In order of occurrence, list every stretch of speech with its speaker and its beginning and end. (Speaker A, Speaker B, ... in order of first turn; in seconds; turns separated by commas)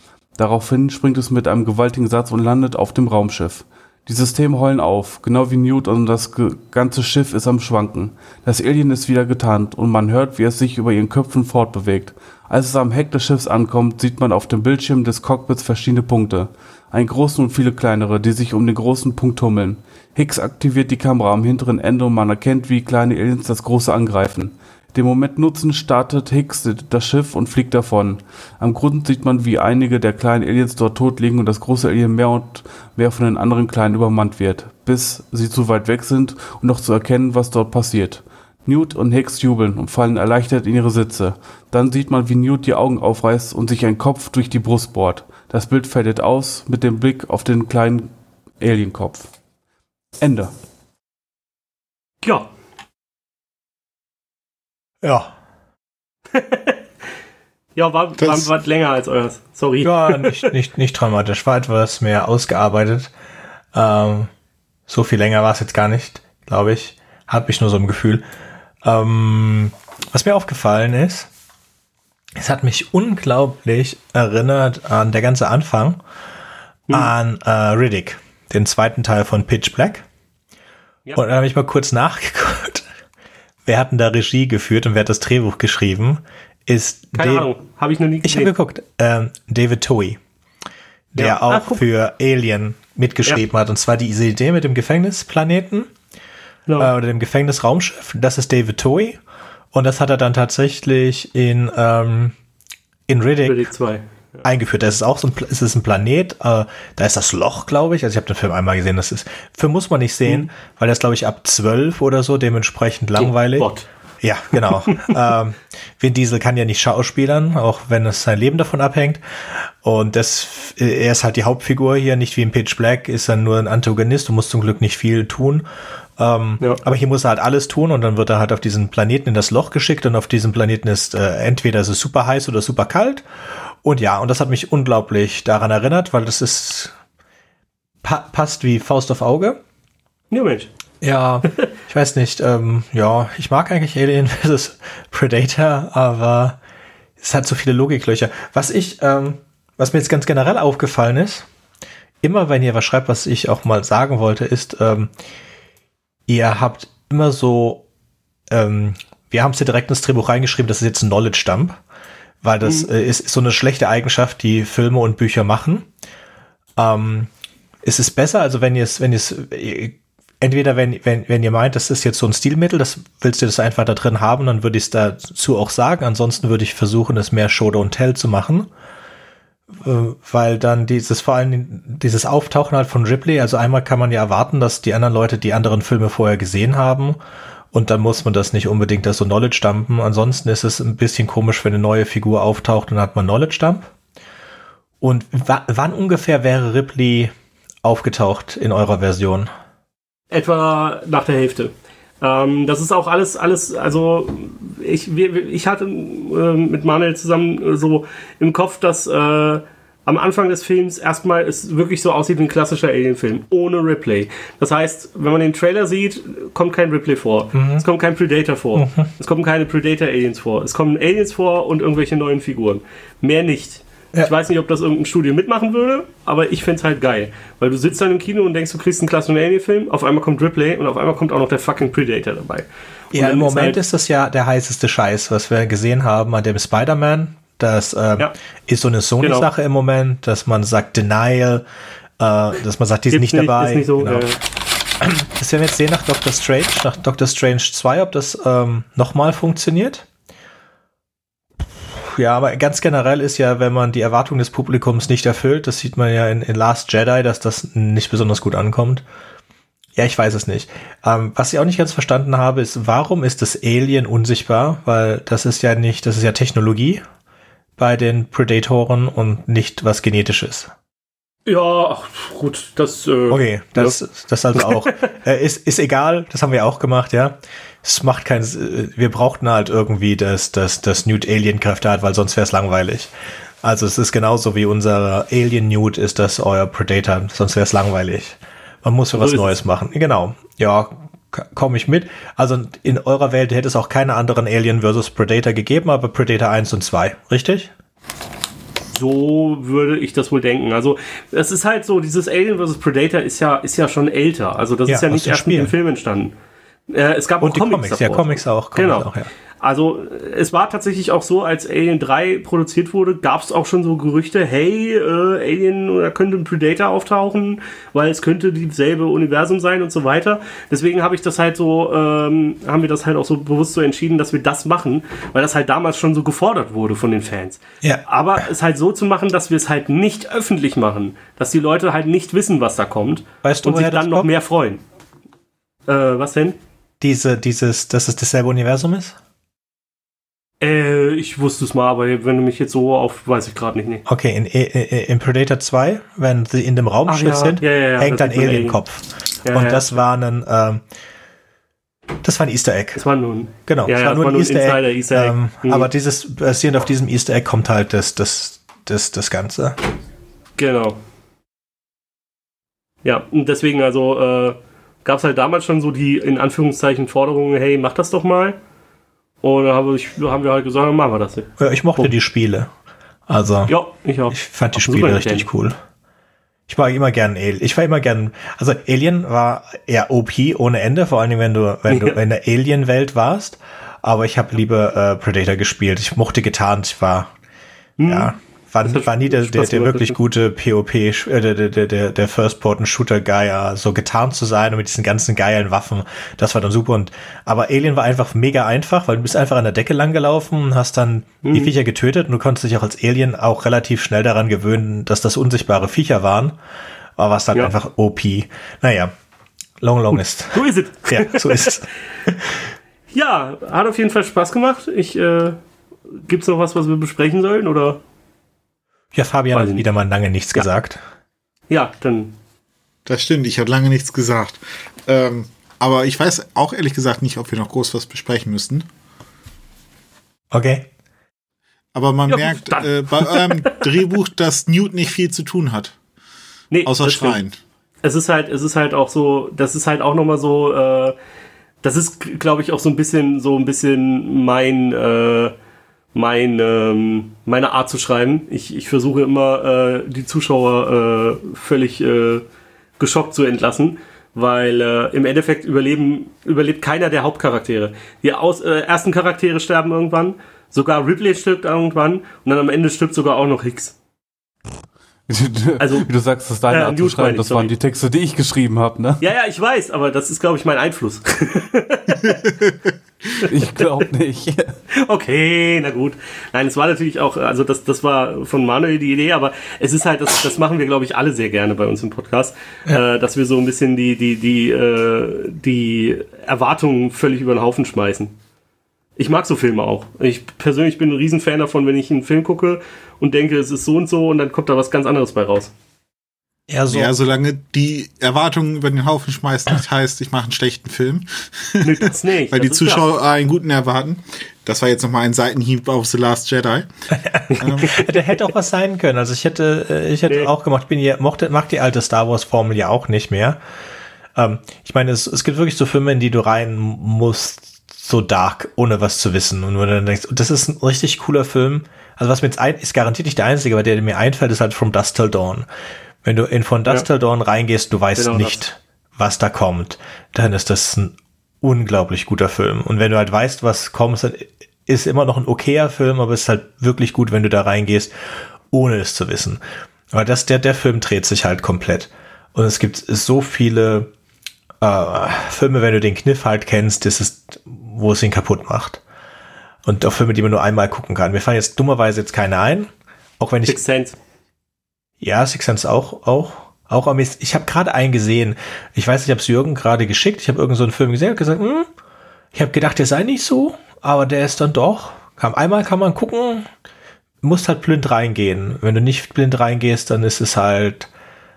Speaker A: 0.3-49.3, Speaker A: 50.2-50.5, Speaker B: 52.2-52.5, Speaker C: 55.0-55.3, Speaker B: 56.3-56.8, Speaker B: 57.8-60.5, Speaker C: 59.8-63.1, Speaker C: 63.7-64.3, Speaker C: 64.9-68.2, Speaker C: 68.8-71.3, Speaker C: 72.4-76.0, Speaker C: 76.9-80.0, Speaker C: 81.1-82.8, Speaker C: 83.7-87.5, Speaker B: 87.1-88.5, Speaker C: 88.2-90.2, Speaker C: 91.1-95.9, Speaker B: 91.2-91.8, Speaker C: 96.8-99.2, Speaker C: 99.7-102.3, Speaker C: 103.1-103.6, Speaker B: 103.5-104.4, Speaker C: 104.4-113.7, Speaker B: 113.2-113.9, Speaker C: 114.2-125.6, Speaker B: 114.6-115.1, Speaker C: 126.2-136.9, Speaker C: 138.0-139.6, Speaker B: 140.3-140.7, Speaker C: 141.0-146.6, Speaker C: 147.2-151.5, Speaker C: 152.2-155.1, Speaker C: 156.3-157.8, Speaker C: 158.5-161.8, Speaker C: 162.4-165.9, Speaker C: 166.8-167.3, Speaker C: 167.8-178.7, Speaker C: 179.7-187.2, Speaker C: 187.7-193.9, Speaker C: 195.0-197.3, Speaker C: 197.8-199.5, Speaker B: 200.3-233.8, Speaker C: 217.5-217.8, Speaker C: 218.7-219.1, Speaker C: 233.1-241.6, Speaker B: 239.2-239.5, Speaker C: 242.2-244.3, Speaker B: 243.1-244.4, Speaker C: 245.0-250.1, Speaker C: 251.8-259.0, Speaker C: 259.9-267.0, Speaker C: 267.8-270.7, Speaker B: 271.4-273.9, Speaker C: 273.3-283.1, Speaker B: 274.5-274.9, Speaker C: 283.6-297.7, Speaker B: 289.1-289.6, Speaker B: 298.9-306.3, Speaker C: 304.9-305.7, Speaker B: 306.9-309.1, Speaker C: 307.4-309.3, Speaker B: 309.6-334.8, Speaker C: 333.4-334.3, Speaker B: 335.9-336.6, Speaker C: 337.0-339.1, Speaker B: 340.6-344.0, Speaker C: 344.1-350.8, Speaker B: 347.1-348.8, Speaker B: 349.4-349.9, Speaker C: 352.2-353.0, Speaker B: 353.0-355.9, Speaker C: 353.6-359.8, Speaker B: 360.6-361.0, Speaker B: 363.0-368.6, Speaker B: 369.4-372.1, Speaker C: 371.6-372.7, Speaker C: 373.3-373.7, Speaker B: 373.7-375.4, Speaker C: 374.3-375.8, Speaker C: 376.7-387.3, Speaker B: 381.9-382.2, Speaker B: 388.0-390.1, Speaker C: 388.0-406.6, Speaker B: 401.4-401.7, Speaker C: 407.2-409.1, Speaker C: 409.8-412.6, Speaker B: 410.5-411.8, Speaker B: 413.1-415.6, Speaker B: 416.1-418.0, Speaker C: 419.1-421.0, Speaker B: 419.5-419.8, Speaker B: 421.7-422.3, Speaker D: 423.1-428.8, Speaker C: 430.5-430.9, Speaker D: 431.9-435.9, Speaker B: 432.3-433.9, Speaker B: 436.7-437.4, Speaker D: 436.9-437.6, Speaker B: 438.0-441.1, Speaker B: 441.8-445.5, Speaker B: 446.1-452.4, Speaker B: 453.0-463.9, Speaker A: 465.3-469.2, Speaker B: 465.8-466.1, Speaker B: 466.7-467.7, Speaker B: 469.2-472.4, Speaker D: 472.2-472.9, Speaker A: 473.4-474.8, Speaker B: 474.9-488.3, Speaker B: 489.2-495.7, Speaker C: 496.7-497.1, Speaker D: 496.9-506.9, Speaker B: 501.8-503.0, Speaker C: 507.1-513.6, Speaker B: 507.5-508.2, Speaker D: 507.6-508.0, Speaker C: 514.3-525.7, Speaker C: 526.2-538.1, Speaker B: 528.1-528.6, Speaker C: 538.7-539.6, Speaker C: 540.1-544.1, Speaker C: 544.8-549.0, Speaker C: 549.8-552.9, Speaker C: 553.4-553.8, Speaker B: 553.7-554.2, Speaker C: 555.2-561.9, Speaker C: 562.5-566.7, Speaker C: 567.4-571.1